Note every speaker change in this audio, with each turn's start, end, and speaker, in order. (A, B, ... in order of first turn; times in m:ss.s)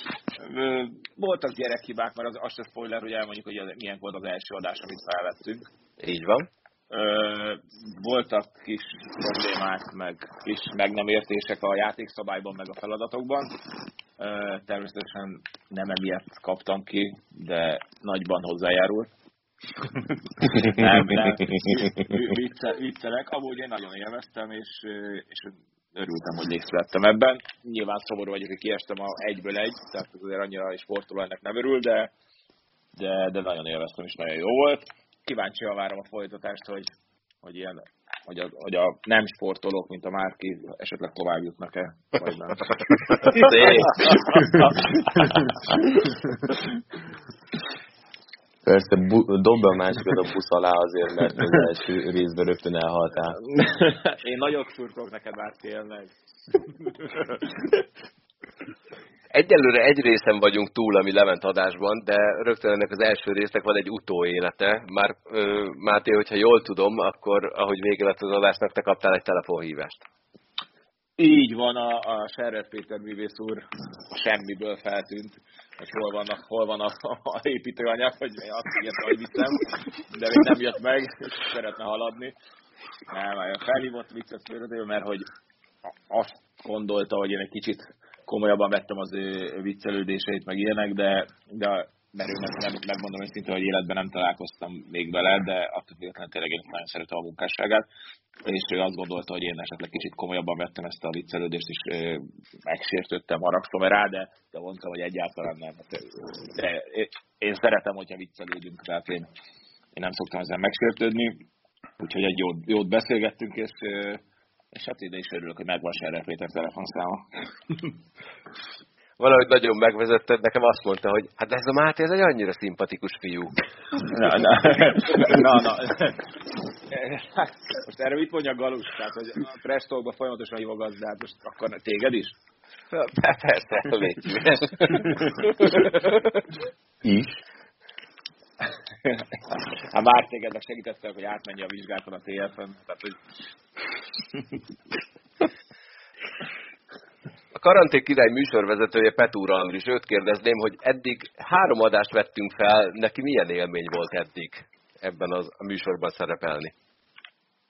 0:00.4-0:05.6 A
0:06.0-0:06.5 B
0:06.9-0:13.6 A
0:14.2-0:19.1 A
0:20.4-0:32.1 A
0:32.9-0:45.2 A
0:43.3-0:44.0 B
0:48.6-0:53.4 C
0:53.4-0:56.1 A
0:56.8-0:57.4 A
0:59.3-1:10.0 B
1:11.2-1:22.3 A
1:23.1-1:25.3 A
1:26.1-1:37.8 A
1:38.4-1:49.3 A
1:49.9-1:51.4 A
1:52.0-1:54.2 A
1:54.7-1:57.9 A
1:59.2-2:03.5 B
2:04.1-2:06.2 A
2:06.9-2:12.4 A
2:12.9-2:16.2 B
2:19.9-2:23.2 A
2:27.5-2:36.7 B